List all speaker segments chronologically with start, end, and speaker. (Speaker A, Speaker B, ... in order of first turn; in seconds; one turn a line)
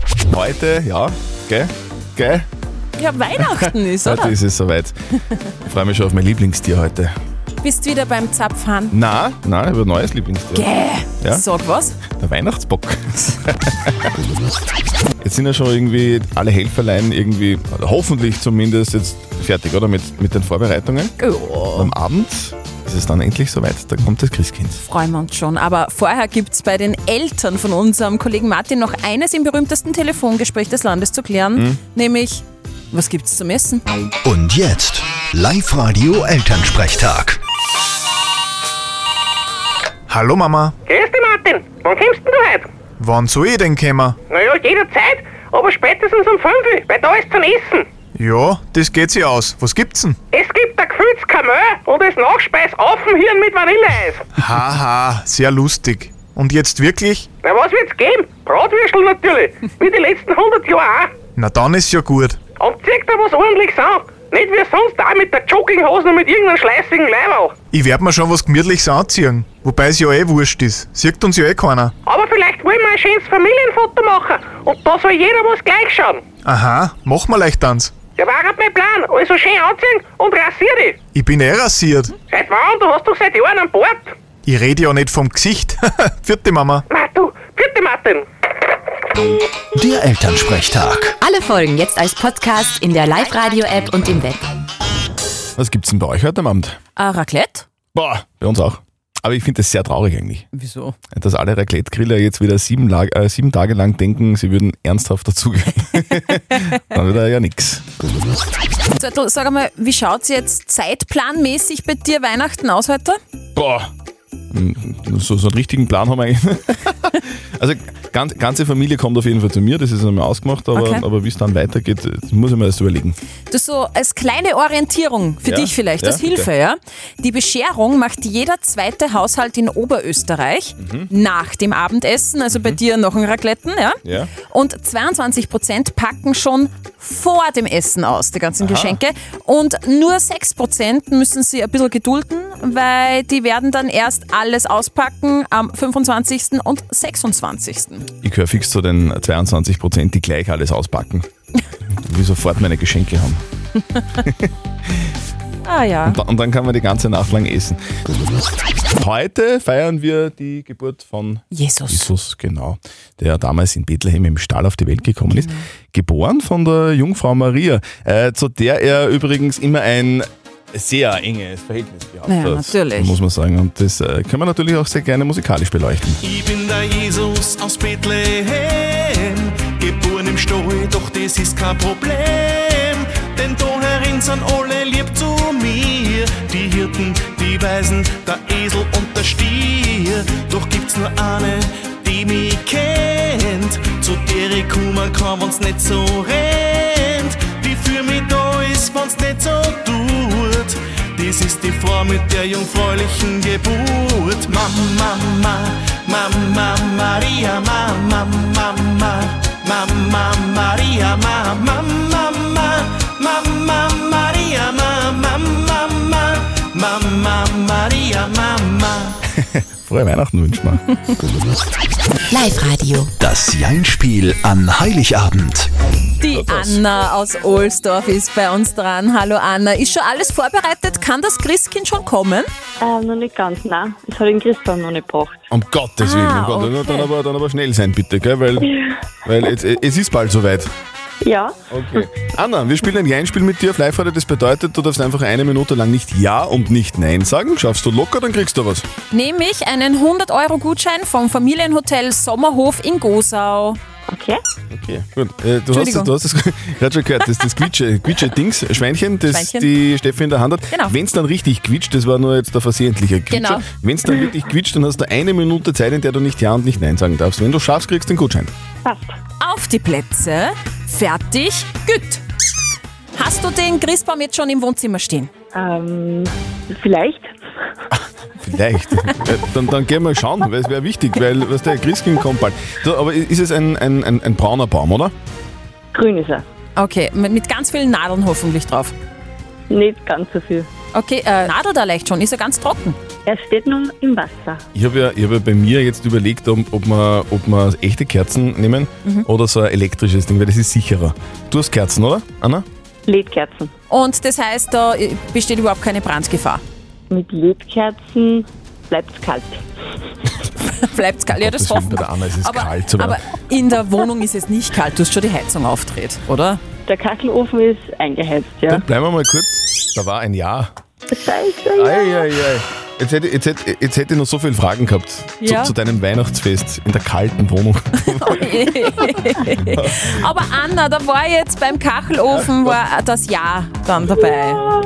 Speaker A: 0.3-2.5
Speaker B: 3.0-4.3
Speaker A: 3.4-4.9
Speaker A: 5.6-7.1
Speaker B: 7.6-8.9
Speaker A: 8.9-10.7
Speaker B: 10.5-12.0
Speaker A: 12.1-14.1
Speaker A: 15.2-21.1
Speaker B: 21.2-21.9
Speaker A: 21.7-24.8
Speaker B: 24.8-33.8
Speaker C: 34.2-37.4
Speaker D: 40.1-40.7
Speaker E: 40.9-42.7
Speaker D: 43.0-44.1
Speaker E: 44.3-47.9
Speaker D: 48.1-50.1
Speaker E: 50.3-54.2
Speaker D: 54.4-57.2
Speaker E: 57.4-61.1
Speaker D: 61.4-62.4
Speaker E: 62.6-67.5
Speaker D: 67.7-71.9
Speaker E: 72.0-76.2
Speaker D: 76.4-77.9
Speaker E: 78.2-81.0
Speaker D: 81.1-82.1
Speaker E: 82.3-84.1
Speaker D: 84.5-86.8
Speaker E: 86.9-88.2
Speaker C: 89.8-91.2
Speaker F: 91.2-94.4
Speaker A: 95.5-96.8
Speaker B: 97.0-97.7
Speaker A: 97.9-100.5
Speaker B: 100.5-100.9
Speaker A: 101.1-107.8
Speaker B: 109.0-113.2
Speaker A: 113.5-113.9
Speaker A: 114.5-123.2
Speaker B: 120.7-121.0
Speaker B: 123.5-148.1
Speaker A: 125.4-126.5
Speaker A: 130.8-131.1
Speaker A: 132.5-132.8
Speaker A: 134.0-134.3
Speaker A: 138.6-139.0
Speaker A: 148.2-151.2
Speaker A: 152.0-153.4
Speaker A: 154.2-154.5
Speaker B: 155.6-156.2
Speaker A: 156.0-157.8
Speaker A: 159.0-176.2
Speaker B: 161.5-162.1
Speaker B: 165.3-165.6
Speaker B: 172.3-173.2
Speaker G: 176.2-219.2
Speaker A: 219.3-220.8
Speaker F: 222.3-223.1
Speaker C: 223.2-225.7
Speaker B: 226.2-232.5
Speaker A: 226.3-226.8
Speaker H: 232.8-235.3
Speaker A: 235.5-240.7
Speaker B: 236.0-237.1
Speaker H: 241.2-241.5
Speaker A: 241.7-248.8
Speaker B: 249.1-253.8
Speaker H: 254.1-254.4
Speaker A: 254.7-268.5
Speaker B: 255.7-256.1
Speaker B: 259.3-259.7
Speaker B: 263.3-263.6
Speaker H: 268.8-269.1
Speaker B: 269.4-272.2
Speaker B: 273.1-275.3
Speaker H: 275.5-277.3
Speaker A: 278.4-285.1
Speaker H: 285.9-286.4
Speaker B: 286.8-288.9
Speaker H: 289.7-290.7
Speaker B: 290.9-293.0
Speaker H: 293.2-294.6
Speaker A: 294.7-302.6
Speaker H: 303.1-303.7
Speaker B: 303.9-306.6
Speaker H: 307.1-309.6
Speaker B: 310.7-316.6
Speaker A: 311.3-313.2
Speaker H: 316.9-318.7
Speaker A: 318.6-320.7
Speaker H: 321.1-322.1
Speaker A: 321.8-328.8
Speaker B: 325.4-325.7
Speaker B: 328.2-334.6
Speaker A: 329.6-330.3
Speaker A: 332.3-332.8
Speaker A: 334.0-334.3